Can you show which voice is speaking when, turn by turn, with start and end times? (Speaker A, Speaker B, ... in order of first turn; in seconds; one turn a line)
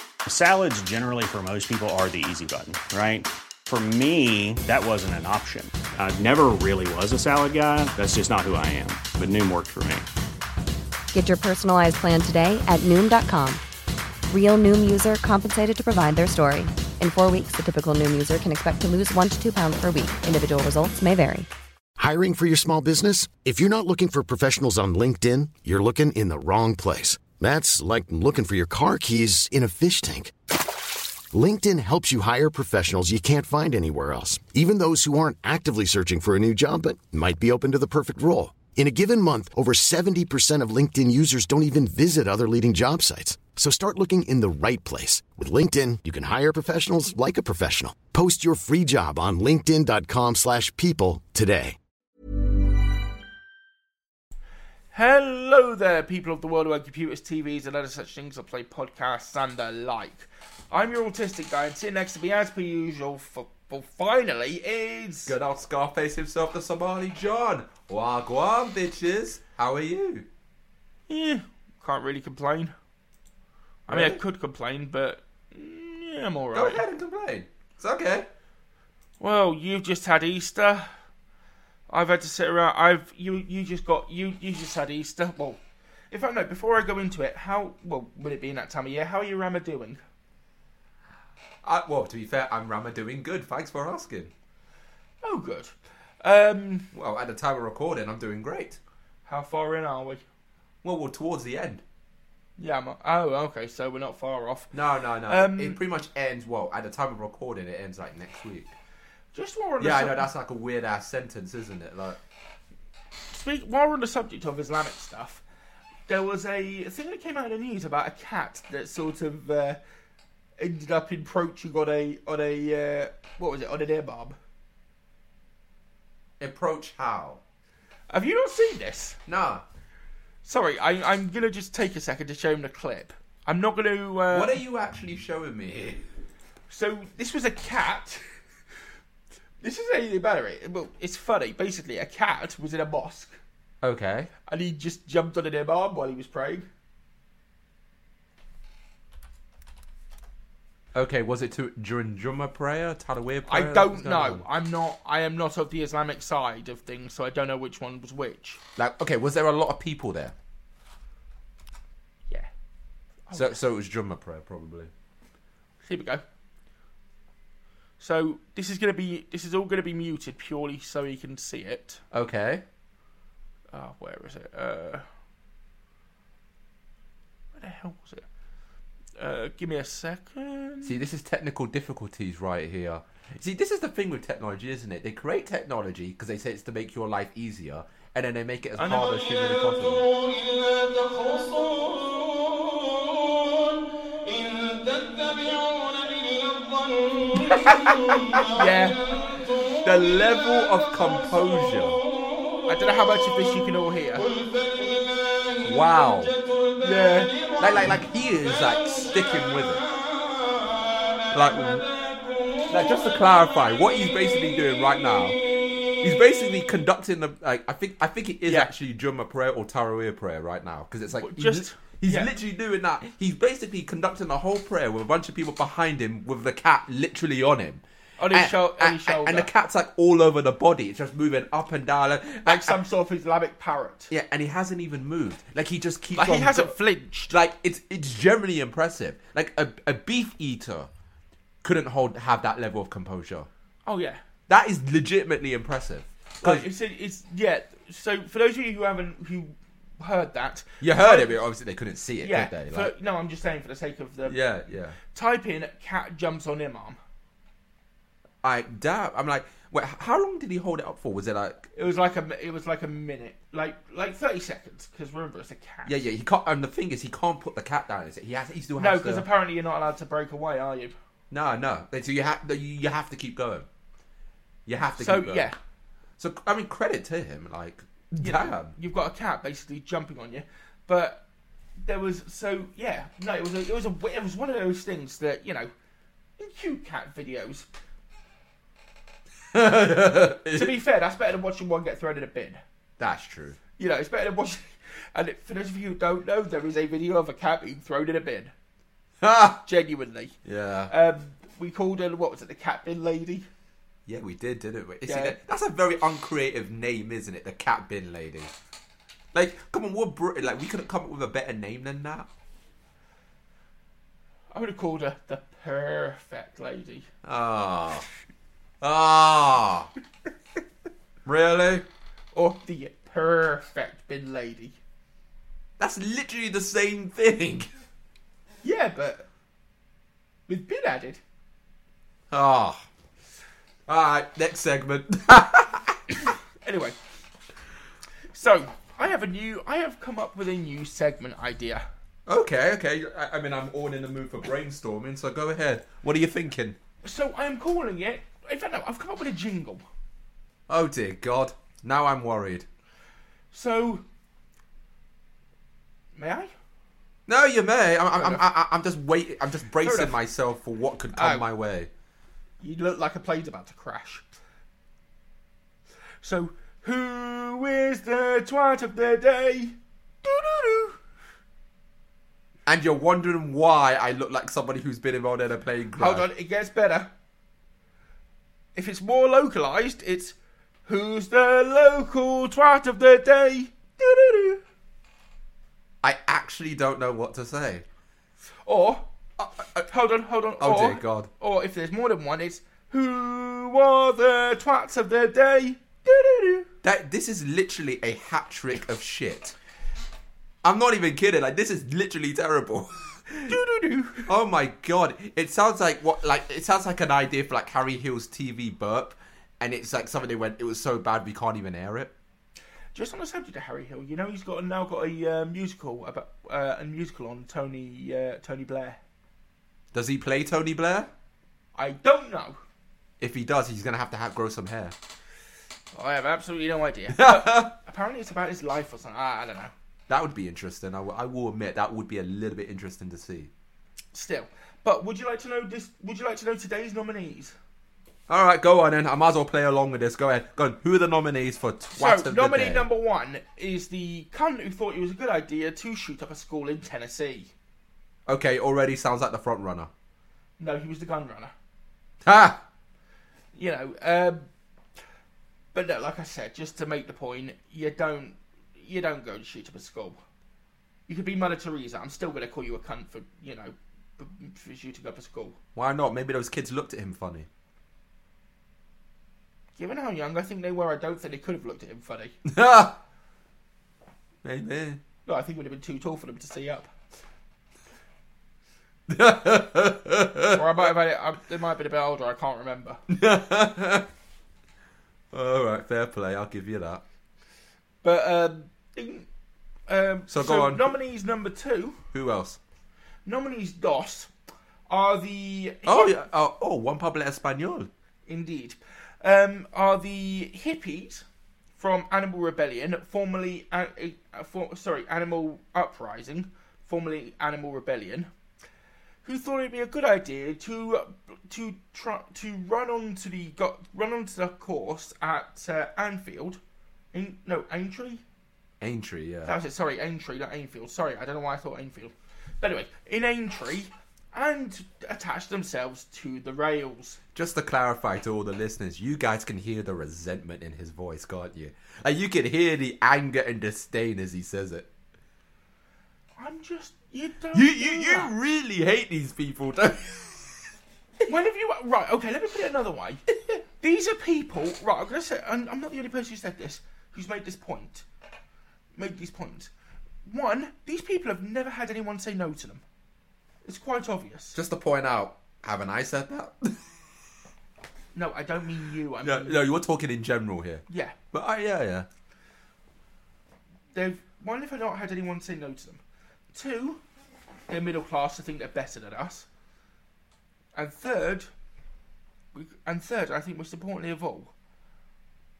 Speaker A: 0.3-10.1
Speaker B: 11.1-13.6
Speaker B: 14.3-21.5
Speaker C: 22.0-30.3
Speaker C: 31.3-51.8
Speaker D: 54.9-65.3
Speaker E: 65.3-70.2
Speaker D: 71.1-72.7
Speaker E: 73.9-74.2
Speaker D: 73.9-76.8
Speaker E: 76.5-78.3
Speaker D: 79.2-80.9
Speaker D: 81.9-85.6
Speaker D: 86.1-90.0
Speaker E: 91.6-94.3
Speaker D: 95.2-96.9
Speaker E: 96.9-98.8
Speaker D: 99.2-100.2
Speaker E: 100.8-101.8
Speaker D: 102.6-104.7
Speaker E: 104.7-108.7
Speaker D: 105.3-105.8
Speaker D: 109.3-110.3
Speaker E: 109.8-112.2
Speaker D: 113.3-115.4
Speaker D: 116.1-119.8
Speaker D: 120.6-124.4
Speaker E: 126.4-127.4
Speaker D: 128.1-129.2
Speaker E: 129.3-129.6
Speaker D: 130.4-134.6
Speaker E: 134.3-136.0
Speaker D: 136.7-138.2
Speaker D: 139.6-143.4
Speaker E: 143.8-144.3
Speaker D: 144.5-146.7
Speaker E: 150.9-154.4
Speaker D: 153.5-158.6
Speaker E: 158.8-160.3
Speaker D: 163.3-163.5
Speaker E: 163.3-164.9
Speaker D: 165.8-166.2
Speaker D: 168.0-172.0
Speaker E: 172.1-172.6
Speaker D: 173.7-175.1
Speaker D: 177.5-178.2
Speaker D: 179.2-180.9
Speaker E: 180.8-190.1
Speaker D: 188.8-189.2
Speaker E: 197.4-198.5
Speaker D: 198.5-199.1
Speaker E: 199.8-202.0
Speaker D: 202.7-204.3
Speaker E: 205.6-206.3
Speaker D: 206.8-207.6
Speaker E: 207.6-209.8
Speaker E: 211.3-211.9
Speaker E: 212.7-215.4
Speaker E: 216.0-232.8
Speaker D: 218.4-218.7
Speaker D: 221.2-222.3
Speaker D: 228.2-229.5
Speaker D: 232.4-234.1
Speaker E: 234.1-236.8
Speaker D: 236.2-237.3
Speaker E: 237.3-240.9
Speaker E: 241.6-243.5
Speaker D: 243.8-244.2
Speaker E: 244.5-246.7
Speaker D: 246.4-251.4
Speaker E: 250.8-252.9
Speaker D: 252.2-254.4
Speaker E: 254.3-255.0
Speaker D: 255.1-257.0
Speaker E: 258.4-261.7
Speaker D: 261.7-265.9
Speaker E: 265.9-269.3
Speaker D: 268.8-270.9
Speaker E: 271.3-273.6
Speaker E: 274.7-275.5
Speaker D: 274.9-275.6
Speaker E: 276.2-278.7
Speaker D: 278.2-281.2
Speaker D: 281.8-285.7
Speaker D: 286.4-287.7
Speaker E: 289.5-290.7
Speaker D: 290.5-292.6
Speaker E: 293.0-293.6
Speaker D: 293.8-298.5
Speaker E: 299.2-299.6
Speaker D: 299.6-300.3
Speaker E: 300.4-300.9
Speaker D: 300.9-303.5
Speaker E: 304.1-308.5
Speaker D: 305.0-305.4
Speaker E: 309.3-312.3
Speaker D: 314.5-317.1
Speaker E: 317.2-318.1
Speaker E: 318.8-319.9
Speaker E: 321.2-321.9
Speaker D: 322.3-324.8
Speaker E: 325.8-327.7
Speaker D: 328.6-329.2
Speaker D: 330.5-331.2
Speaker E: 332.3-332.8
Speaker E: 333.9-336.0
Speaker D: 336.6-337.0
Speaker D: 338.3-341.9
Speaker E: 342.3-346.8
Speaker D: 347.0-349.8
Speaker E: 350.7-352.6
Speaker D: 353.5-354.0
Speaker D: 356.1-356.5
Speaker E: 357.3-361.9
Speaker D: 358.1-358.4
Speaker D: 359.8-360.1
Speaker D: 361.1-361.4
Speaker D: 362.6-364.3
Speaker D: 366.2-371.0
Speaker E: 372.6-376.3
Speaker D: 375.9-377.1
Speaker D: 378.7-384.6
Speaker E: 386.0-387.8
Speaker D: 388.6-389.1
Speaker E: 389.4-389.9
Speaker D: 389.9-396.7
Speaker E: 390.6-391.3
Speaker E: 396.8-399.5
Speaker E: 400.6-403.6
Speaker D: 403.5-404.3
Speaker E: 404.2-412.1
Speaker D: 412.9-419.0
Speaker E: 419.9-421.1
Speaker D: 421.7-422.6
Speaker E: 423.2-424.9
Speaker D: 425.9-429.7
Speaker E: 427.1-427.7
Speaker E: 430.1-433.5
Speaker D: 434.1-437.5
Speaker E: 438.3-442.9
Speaker D: 441.9-447.5
Speaker E: 448.3-449.9
Speaker D: 450.6-451.5
Speaker E: 452.2-452.6
Speaker D: 453.5-454.4
Speaker D: 455.7-460.2
Speaker D: 461.1-465.6
Speaker E: 465.7-467.5
Speaker D: 469.8-472.4
Speaker E: 472.4-473.0
Speaker E: 474.4-475.0
Speaker D: 475.2-476.9
Speaker E: 479.1-480.6
Speaker D: 480.5-483.0
Speaker E: 483.1-484.1
Speaker E: 485.3-487.0
Speaker D: 488.0-489.3
Speaker D: 489.9-492.0
Speaker E: 490.3-490.9
Speaker E: 492.1-492.6
Speaker D: 493.2-494.3
Speaker D: 494.9-496.1
Speaker E: 495.9-497.9
Speaker D: 498.3-501.2
Speaker D: 501.8-508.3
Speaker D: 509.2-516.6
Speaker D: 517.1-518.2
Speaker E: 518.8-519.5
Speaker D: 519.5-527.2
Speaker E: 527.3-534.9
Speaker D: 536.4-538.3
Speaker E: 537.5-540.6
Speaker D: 541.3-543.2
Speaker D: 543.8-548.0
Speaker D: 548.9-549.7
Speaker D: 550.2-552.8
Speaker D: 553.6-554.6
Speaker E: 554.5-556.8
Speaker D: 558.1-559.6
Speaker E: 559.2-562.1
Speaker D: 560.9-561.1
Speaker D: 563.9-566.0
Speaker D: 566.5-567.0
Speaker D: 567.7-569.5
Speaker D: 570.7-571.5
Speaker D: 572.5-574.5